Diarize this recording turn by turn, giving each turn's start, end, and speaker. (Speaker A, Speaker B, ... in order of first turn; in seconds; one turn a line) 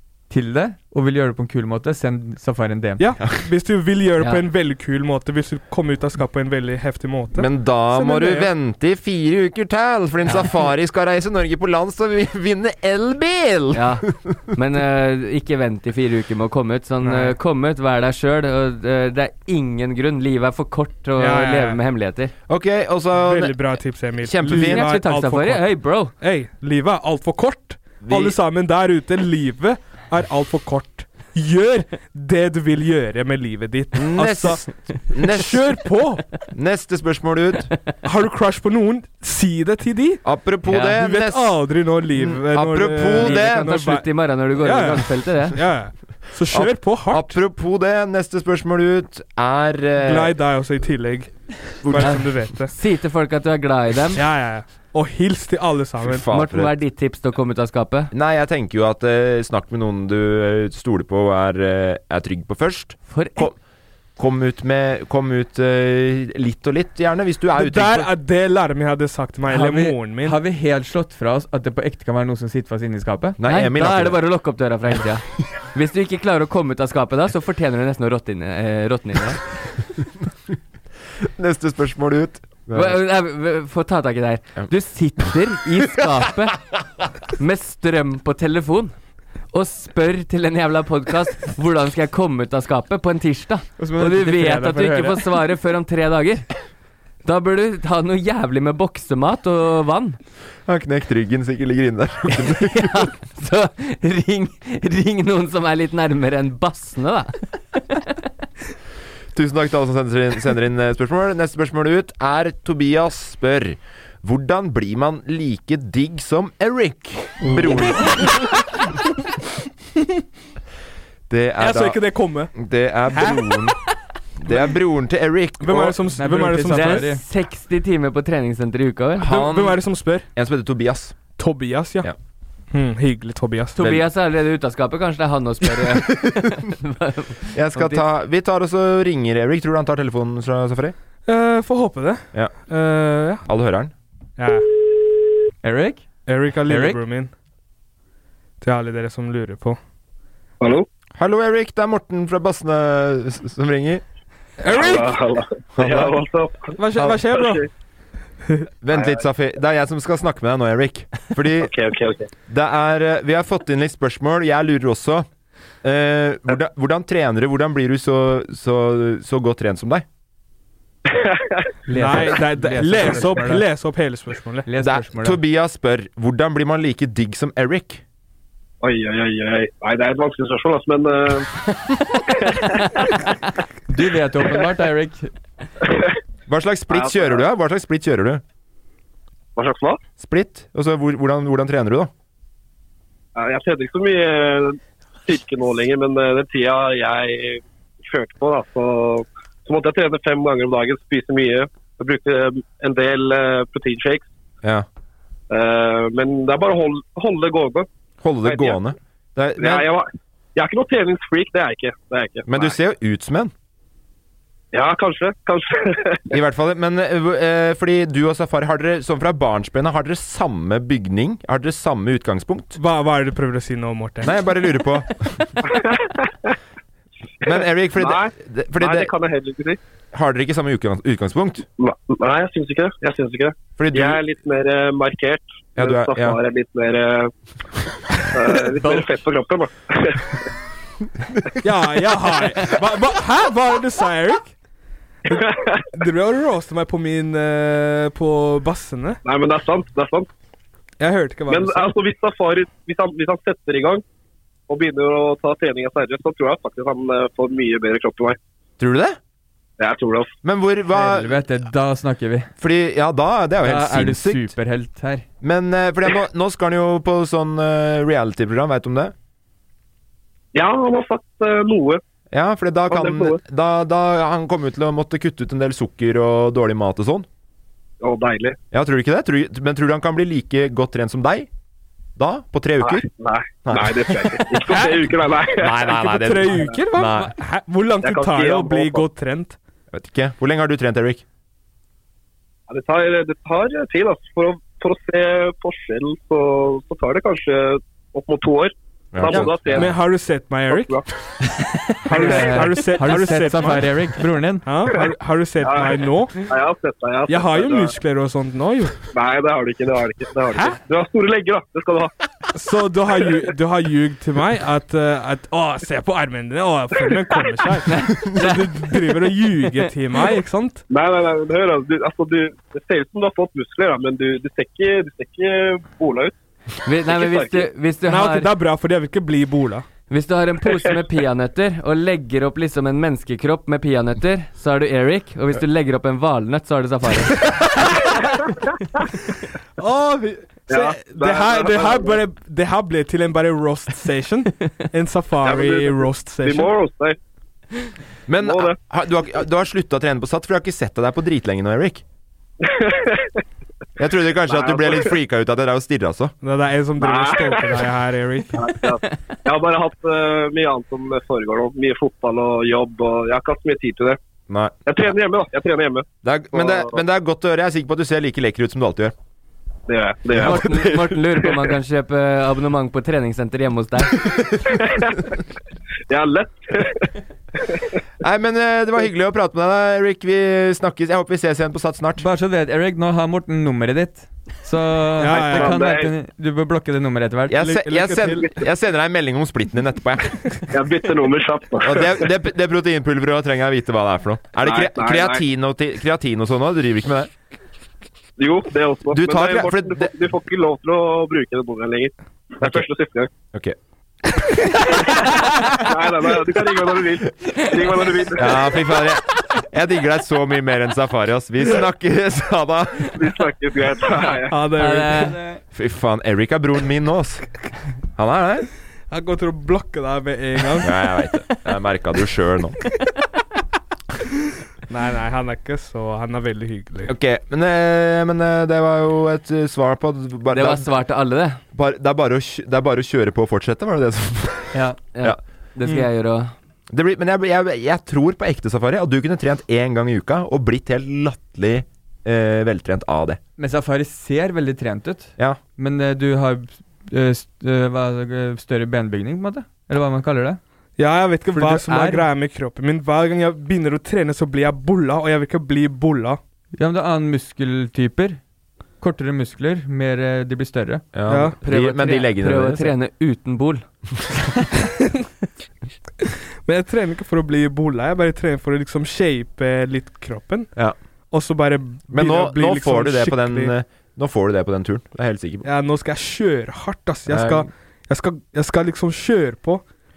Speaker A: 0.3-3.0
Speaker B: 3.0-8.5
Speaker C: 7.3-14.3
Speaker D: 13.7-22.3
Speaker B: 17.0-17.3
Speaker B: 21.2-21.8
Speaker C: 22.5-25.0
Speaker B: 23.1-36.2
Speaker D: 24.4-26.1
Speaker C: 28.0-28.4
Speaker C: 33.9-35.8
Speaker C: 36.5-37.7
Speaker B: 38.0-40.2
Speaker C: 40.2-41.6
Speaker D: 40.7-41.0
Speaker B: 41.0-47.4
Speaker C: 42.1-43.7
Speaker D: 43.1-45.6
Speaker C: 46.5-50.4
Speaker B: 50.0-52.7
Speaker C: 51.8-52.4
Speaker D: 52.0-54.2
Speaker B: 54.1-56.2
Speaker C: 56.0-56.8
Speaker D: 56.3-58.1
Speaker C: 58.1-63.6
Speaker D: 63.1-63.5
Speaker C: 64.2-68.1
Speaker B: 67.5-70.4
Speaker A: 69.5-73.4
Speaker C: 73.4-74.2
Speaker D: 73.4-79.4
Speaker C: 81.2-83.0
Speaker D: 82.7-86.6
Speaker D: 87.4-89.0
Speaker D: 89.5-96.5
Speaker A: 93.8-95.3
Speaker D: 97.2-100.2
Speaker C: 100.7-103.1
Speaker D: 102.6-107.3
Speaker C: 109.3-118.3
Speaker C: 121.3-122.0
Speaker B: 121.6-122.5
Speaker C: 122.5-123.8
Speaker B: 123.1-123.6
Speaker C: 124.3-126.0
Speaker B: 125.6-127.1
Speaker A: 126.2-127.2
Speaker D: 126.7-129.3
Speaker C: 129.2-131.2
Speaker B: 129.2-130.2
Speaker B: 131.4-132.1
Speaker B: 132.7-133.8
Speaker D: 133.8-138.0
Speaker C: 135.9-136.4
Speaker C: 137.5-140.9
Speaker B: 141.3-143.4
Speaker C: 143.4-143.9
Speaker B: 144.4-144.7
Speaker A: 145.6-146.1
Speaker B: 146.2-147.3
Speaker A: 146.7-147.0
Speaker B: 148.6-149.8
Speaker E: 150.6-150.8
Speaker C: 151.2-154.0
Speaker B: 154.6-155.2
Speaker E: 154.7-157.6
Speaker C: 155.7-156.2
Speaker B: 156.8-157.6
Speaker C: 156.9-157.2
Speaker C: 158.8-161.7
Speaker E: 158.9-159.2
Speaker E: 161.6-162.3
Speaker C: 162.5-165.3
Speaker C: 165.8-170.0
Speaker E: 171.1-171.7
Speaker A: 171.9-173.6
Speaker B: 171.9-174.7
Speaker A: 174.7-175.4
Speaker C: 174.8-178.0
Speaker E: 178.8-181.5
Speaker E: 182.3-183.0
Speaker A: 183.9-185.3
Speaker C: 186.5-188.4
Speaker E: 186.9-187.4
Speaker E: 189.6-190.0
Speaker C: 190.2-192.1
Speaker E: 193.3-204.2
Speaker E: 205.5-207.9
Speaker C: 208.2-209.9
Speaker E: 208.4-208.8
Speaker E: 209.6-212.7
Speaker C: 212.5-213.5
Speaker E: 214.7-216.3
Speaker C: 216.3-222.8
Speaker B: 222.8-224.3
Speaker C: 224.2-225.6
Speaker E: 225.7-226.5
Speaker C: 227.4-229.1
Speaker E: 227.4-229.8
Speaker C: 230.1-231.7
Speaker E: 231.8-237.3
Speaker C: 233.8-234.2
Speaker C: 235.8-236.4
Speaker E: 238.3-240.2
Speaker B: 241.6-244.5
Speaker E: 245.3-245.8
Speaker B: 245.3-249.2
Speaker E: 249.2-250.3
Speaker B: 251.0-251.9
Speaker E: 251.5-254.0
Speaker E: 254.7-258.4
Speaker C: 258.8-259.2
Speaker E: 259.8-260.3
Speaker C: 260.4-261.4
Speaker A: 260.9-262.5
Speaker C: 262.6-264.5
Speaker A: 263.6-265.2
Speaker C: 265.4-269.1
Speaker E: 270.5-272.0
Speaker C: 272.3-277.3
Speaker E: 272.9-273.4
Speaker E: 278.0-278.6
Speaker C: 278.7-281.5
Speaker C: 282.2-283.1
Speaker E: 282.8-285.9
Speaker C: 283.6-284.4
Speaker B: 284.7-285.2
Speaker C: 285.6-287.3
Speaker B: 285.8-289.6
Speaker E: 288.0-289.1
Speaker C: 289.9-291.2
Speaker E: 292.7-299.9
Speaker C: 299.1-299.8
Speaker B: 299.3-301.0
Speaker E: 300.7-301.0
Speaker B: 302.0-303.9
Speaker A: 302.1-304.6
Speaker B: 304.6-306.4
Speaker E: 305.6-307.9
Speaker B: 307.3-309.0
Speaker E: 309.1-312.1
Speaker B: 310.5-310.8
Speaker B: 312.5-320.8
Speaker E: 313.2-313.5
Speaker E: 317.0-317.5
Speaker D: 317.9-318.7
Speaker E: 320.9-326.3
Speaker D: 326.8-328.5
Speaker E: 327.1-327.6
Speaker B: 328.1-329.9
Speaker D: 330.1-337.5
Speaker B: 339.8-346.7
Speaker E: 340.7-342.2
Speaker E: 345.4-347.2
Speaker C: 348.3-352.0
Speaker E: 348.4-348.8
Speaker E: 352.6-353.4
Speaker C: 354.0-356.3
Speaker E: 354.5-355.1
Speaker B: 356.4-358.7
Speaker E: 357.0-357.9
Speaker E: 358.5-364.2
Speaker C: 364.5-364.8
Speaker E: 364.9-367.0
Speaker C: 366.2-369.1
Speaker E: 369.9-370.8
Speaker C: 370.3-371.2
Speaker D: 370.4-374.2
Speaker E: 374.6-375.1
Speaker E: 376.1-377.1
Speaker C: 378.2-382.2
Speaker A: 382.2-387.6
Speaker B: 385.2-385.8
Speaker E: 385.3-386.1
Speaker C: 387.5-390.6
Speaker B: 387.6-388.5
Speaker E: 390.7-392.2
Speaker C: 391.8-397.3
Speaker E: 394.6-395.4
Speaker E: 398.4-403.3
Speaker C: 399.1-400.1
Speaker C: 402.6-402.9
Speaker E: 404.9-408.6
Speaker C: 408.4-413.2
Speaker E: 413.1-414.6
Speaker B: 414.5-415.4
Speaker D: 414.8-415.4
Speaker C: 415.7-417.5
Speaker C: 418.1-418.7
Speaker B: 419.1-420.9
Speaker C: 420.8-422.8
Speaker B: 424.9-427.1
Speaker C: 427.1-430.9
Speaker D: 430.5-431.6
Speaker C: 431.7-435.4
Speaker D: 435.1-436.5
Speaker C: 436.9-443.4
Speaker A: 443.6-450.6
Speaker B: 451.0-456.4
Speaker A: 451.5-452.2
Speaker A: 456.8-458.4
Speaker A: 459.0-461.1
Speaker C: 461.1-462.9
Speaker B: 461.3-461.6
Speaker D: 461.6-463.8
Speaker B: 466.2-470.7
Speaker B: 471.3-473.7
Speaker C: 472.1-475.7
Speaker B: 475.6-479.8
Speaker C: 477.3-477.7